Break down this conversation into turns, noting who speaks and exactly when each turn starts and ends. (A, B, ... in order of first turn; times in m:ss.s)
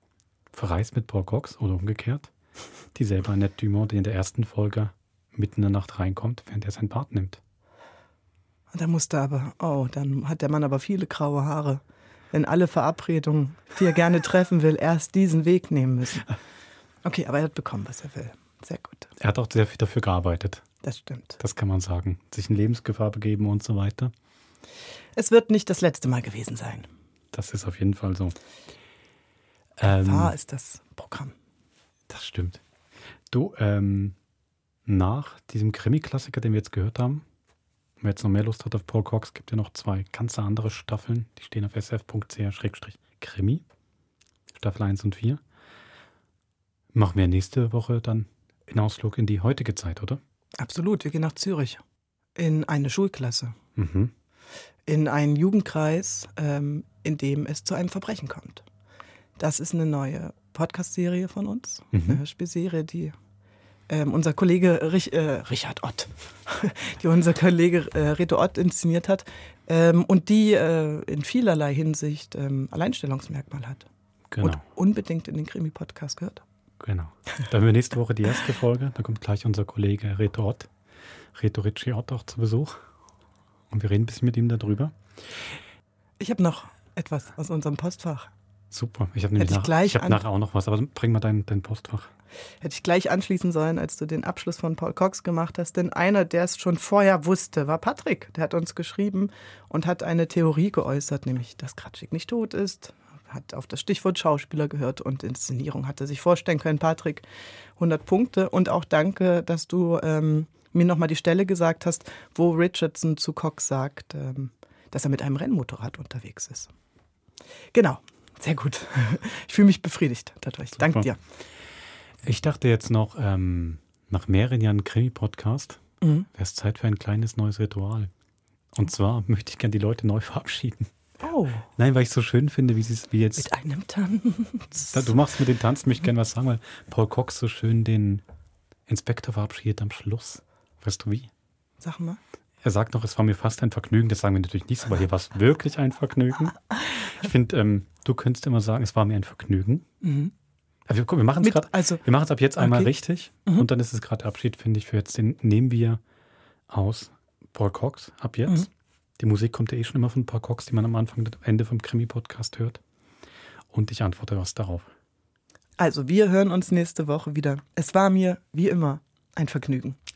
0:00.5-0:02.3 A
0:02.9-0:07.4 A
0:08.7-0:16.2 B
0:17.0-0:19.1 B
0:19.2-0:20.7 A
0:20.8-0:21.4 B
0:21.4-0:24.1 A
0:25.2-0:26.9 B
0:27.3-0:28.4 A
0:29.8-0:30.3 A
0:29.9-0:31.4 B
0:32.1-0:32.6 A
0:33.3-0:34.2 A
0:34.9-0:37.2 A
0:38.0-0:43.6 A
0:44.5-0:45.4 A
0:46.9-0:50.2 A
0:50.6-0:51.8 B
0:52.4-0:53.6 B
0:53.8-0:54.1 A
0:54.9-0:58.6 B
0:59.4-1:03.1 B
1:01.9-1:02.2 A
1:03.9-1:13.9 B
1:14.3-1:14.6 A
1:14.4-1:16.4 B
1:16.8-1:20.7 A
1:21.3-1:22.8 A
1:23.7-1:24.9 A
1:26.2-1:28.3 B
1:28.7-1:32.1 A
1:29.4-1:30.2 B
1:32.6-1:47.2 B
1:47.8-1:56.7 B
1:57.7-2:01.2 B
2:00.8-2:01.1 A
2:02.2-2:08.1 A
2:06.0-2:06.3 B
2:08.7-2:10.9 A
2:11.2-2:11.7 B
2:11.8-2:13.5 A
2:13.4-2:15.1 B
2:14.9-2:18.2 A
2:18.9-2:21.3 A
2:21.8-2:22.2 B
2:22.6-2:26.6 A
2:27.1-2:29.8 A
2:30.0-2:30.3 B
2:30.9-2:36.0 A
2:31.4-2:32.0 B
2:32.6-2:33.7 B
2:36.7-2:38.7 A
2:39.2-2:42.8 A
2:43.7-2:44.9 A
2:45.8-2:50.0 B